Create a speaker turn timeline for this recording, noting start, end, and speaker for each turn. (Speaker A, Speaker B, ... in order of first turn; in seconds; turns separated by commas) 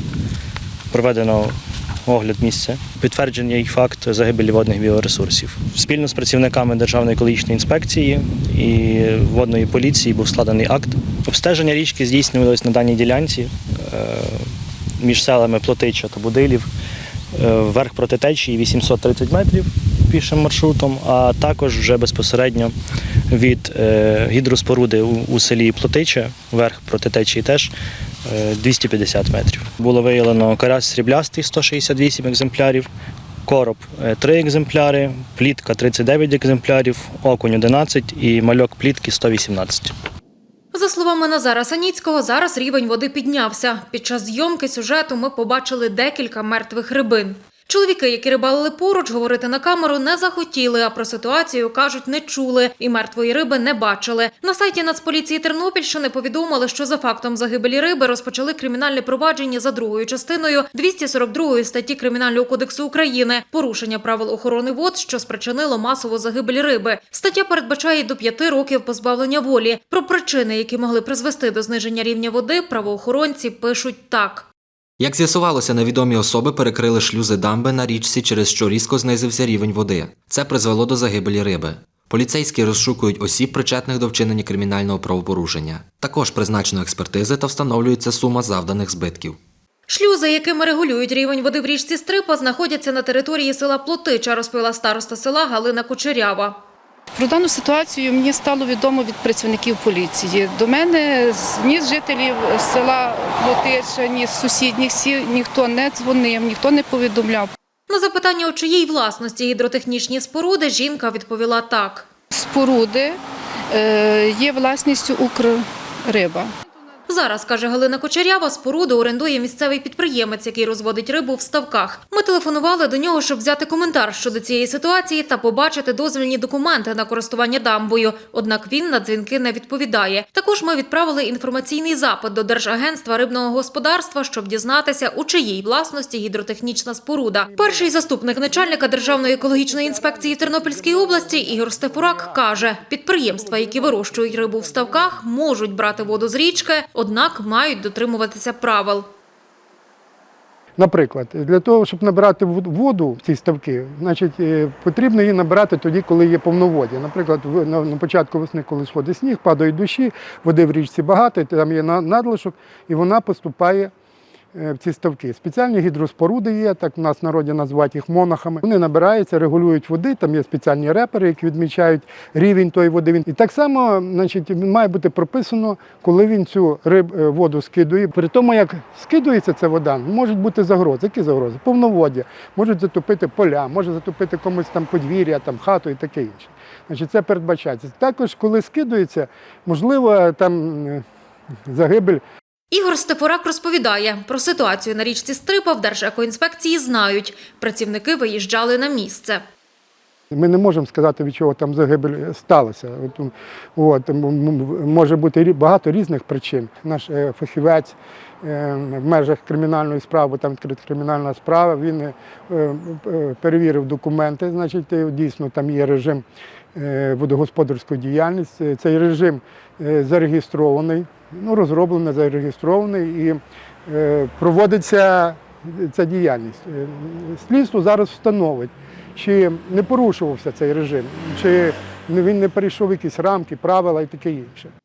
Speaker A: 0.9-1.5, Speaker A: 2.0-14.5, Speaker A: 15.0-16.7, Speaker A: 17.3-22.7, Speaker A: 23.3-27.7, Speaker A: 28.2-32.9, Speaker A: 33.4-39.9, Speaker B: 40.7-74.5, Speaker C: 75.0-89.4, Speaker B: 89.9-96.6, Speaker D: 97.1-107.5, Speaker B: 107.9-112.1, Speaker D: 112.3-113.2, Speaker D: 113.7-116.5, Speaker B: 117.1-149.1, Speaker E: 137.4-142.8, Speaker E: 143.3-145.2, Speaker E: 150.8-163.9, Speaker E: 164.5-191.0, Speaker E: 191.7-192.2, Speaker B: 192.7-199.4, Speaker E: 200.3-216.2, Speaker E: 216.7-234.7